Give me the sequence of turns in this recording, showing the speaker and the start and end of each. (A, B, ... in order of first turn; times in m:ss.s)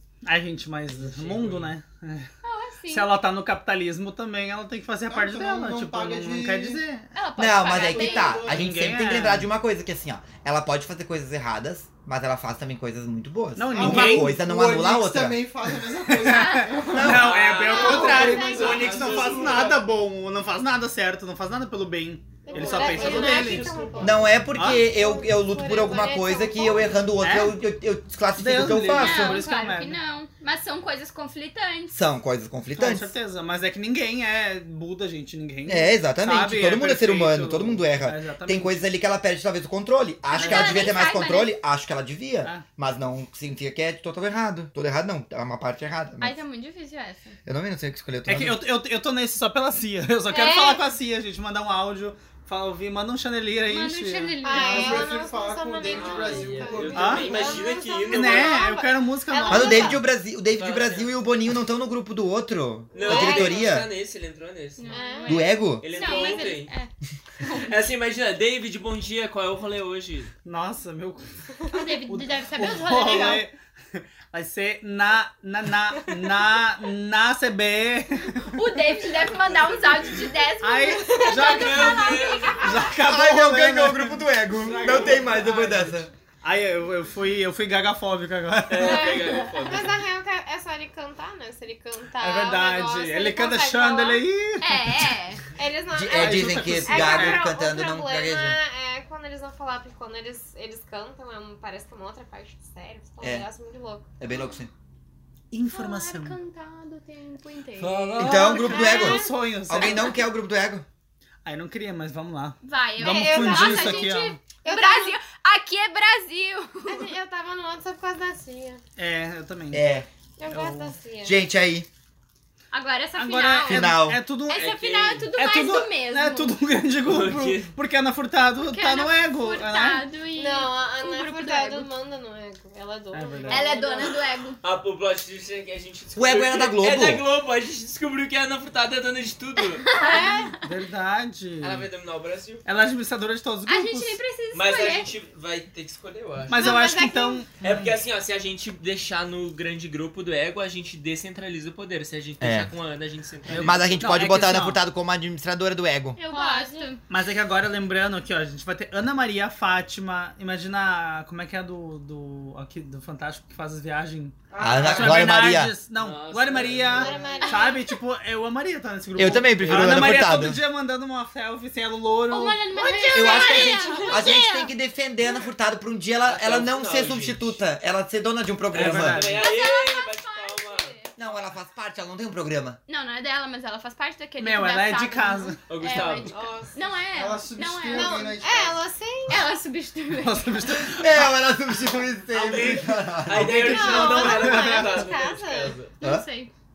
0:00.2-0:02.3 A
0:00.9-0:01.8 B
0:02.4-0:03.2 C
0:02.9-0:07.1 A
0:05.0-0:06.8 D
0:07.1-0:08.5 C
0:07.4-0:15.4 E
0:07.7-0:08.7 D
0:08.4-0:09.5 A
0:13.6-0:14.5 A
0:13.7-0:19.8 D
0:15.8-0:23.7 A
0:16.3-0:16.8 C
0:17.0-0:17.3 E
0:17.1-0:19.8 B
0:17.6-0:19.4 F
0:22.4-0:27.0 F
0:22.6-0:24.3 D
0:22.6-0:23.6 C
0:22.7-0:24.1 B
0:24.0-0:29.4 E
0:24.5-0:24.8 A
0:27.2-0:27.6 A
0:28.4-0:30.0 A
0:28.9-0:32.0 C
0:31.9-0:33.1 E
0:32.8-0:38.8 A
0:35.7-0:46.4 E
0:40.3-0:41.5 C
0:40.4-0:41.1 A
0:46.2-0:47.4 C
0:47.5-0:48.6 E
0:48.3-0:55.1 A
0:50.3-0:50.9 F
0:53.7-0:55.1 C
0:54.4-1:00.0 F
0:54.6-0:57.7 D
0:55.9-0:58.6 B
0:56.9-0:57.3 A
0:58.1-1:00.0 A
0:59.5-1:03.9 E
1:00.5-1:01.2 B
1:02.9-1:05.0 B
1:03.0-1:03.7 F
1:04.8-1:06.9 C
1:04.9-1:06.5 F
1:05.3-1:05.9 E
1:05.8-1:06.7 B
1:07.4-1:07.7 C
1:07.5-1:10.3 B
1:10.4-1:11.3 A
1:11.7-1:13.5 C
1:12.1-1:18.6 A
1:16.0-1:16.4 F
1:18.5-1:23.0 C
1:20.6-1:29.2 A
1:21.1-1:21.9 F
1:21.4-1:22.7 B
1:23.0-1:26.1 E
1:28.7-1:30.0 B
1:28.8-1:34.3 F
1:32.2-1:35.2 A
1:34.6-1:35.4 C
1:35.6-1:44.5 F
1:35.9-1:38.6 E
1:36.1-1:37.5 A
1:44.2-1:44.7 E
1:45.5-1:46.4 A
1:45.7-1:49.2 C
1:47.8-1:50.2 A
1:48.2-1:50.9 E
1:48.6-1:49.9 F
1:51.4-1:54.4 A
1:52.6-1:57.1 C
1:53.0-1:55.2 F
1:56.9-1:58.8 F
1:59.0-1:59.8 A
1:59.7-2:00.1 E
2:00.4-2:01.4 F
2:00.5-2:00.9 A
2:01.2-2:01.9 E
2:02.7-2:03.9 C
2:03.2-2:04.8 A
2:03.7-2:04.2 E
2:04.5-2:06.6 C
2:04.5-2:05.3 B
2:05.4-2:10.0 A
2:07.0-2:07.8 B
2:08.6-2:11.9 C
2:10.4-2:14.2 F
2:13.1-2:13.8 A
2:13.5-2:14.6 C
2:14.6-2:19.8 B
2:16.2-2:17.2 E
2:19.8-2:20.6 C
2:20.0-2:20.6 F
2:20.6-2:21.9 A
2:21.6-2:22.7 B
2:22.6-2:24.2 A
2:23.7-2:25.1 C
2:24.5-2:26.7 B
2:26.5-2:27.9 A
2:26.6-2:27.4 F
2:27.6-2:33.8 B
2:32.4-2:32.7 E
2:33.5-2:34.8 A
2:33.6-2:36.2 E
2:36.2-2:37.0 C
2:36.3-2:36.9 F
2:37.1-2:53.8 A
2:44.5-2:45.5 D
2:44.6-2:45.8 E
2:46.0-2:47.1 B
2:46.9-2:47.8 F
2:47.0-2:47.5 D
2:47.4-2:47.9 C
2:49.2-2:50.6 E
2:52.3-2:54.7 C
2:53.1-2:59.3 E
2:53.4-2:54.3 F
2:56.2-2:57.6 B
2:58.7-3:01.0 B
2:58.7-2:59.5 A
2:59.4-3:01.2 C
3:01.2-3:02.8 E
3:02.9-3:08.4 C
3:04.4-3:05.7 A
3:05.7-3:06.4 B
3:06.3-3:06.8 F
3:07.1-3:08.9 D
3:07.9-3:09.6 F
3:09.3-3:10.9 C
3:10.1-3:15.1 A
3:11.0-3:13.8 E
3:13.3-3:15.9 B
3:13.5-3:15.8 F
3:16.0-3:16.5 C
3:16.0-3:16.3 E